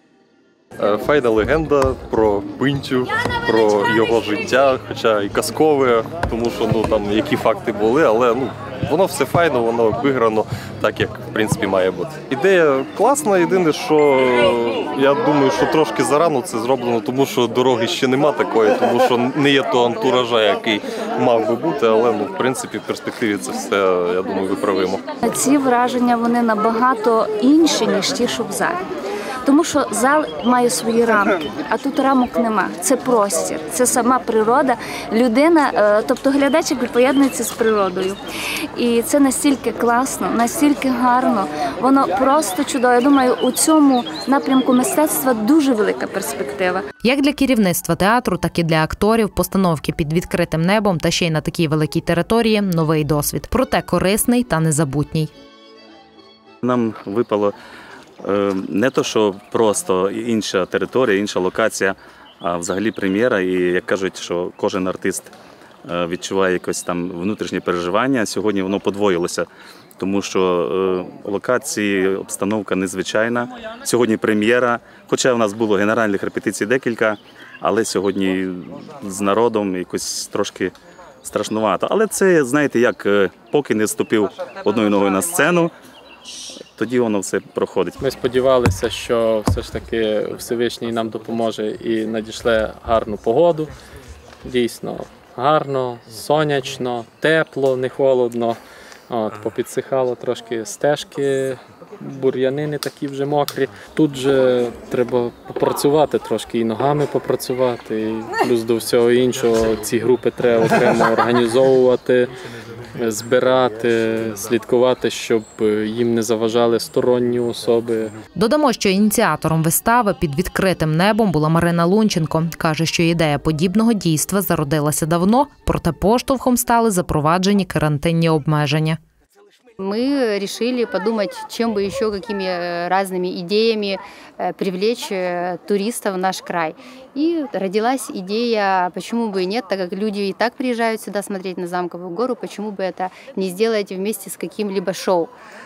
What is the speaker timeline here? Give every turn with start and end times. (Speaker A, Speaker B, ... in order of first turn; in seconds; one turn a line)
Speaker A: 0.8-25.0
Speaker B: 25.2-28.8
Speaker B: 29.4-38.2
Speaker B: 38.7-46.8
Speaker C: 47.0-55.3
Speaker D: 56.6-57.5
Speaker D: 58.2-65.3
Speaker D: 65.8-69.5
Speaker D: 70.0-80.7
Speaker D: 81.2-85.7
Speaker D: 86.7-88.0
Speaker E: 88.0-93.7
Speaker E: 94.4-98.6
Speaker E: 99.1-112.3
Speaker E: 113.0-118.1
Speaker C: 118.3-129.0
Speaker F: 129.8-145.3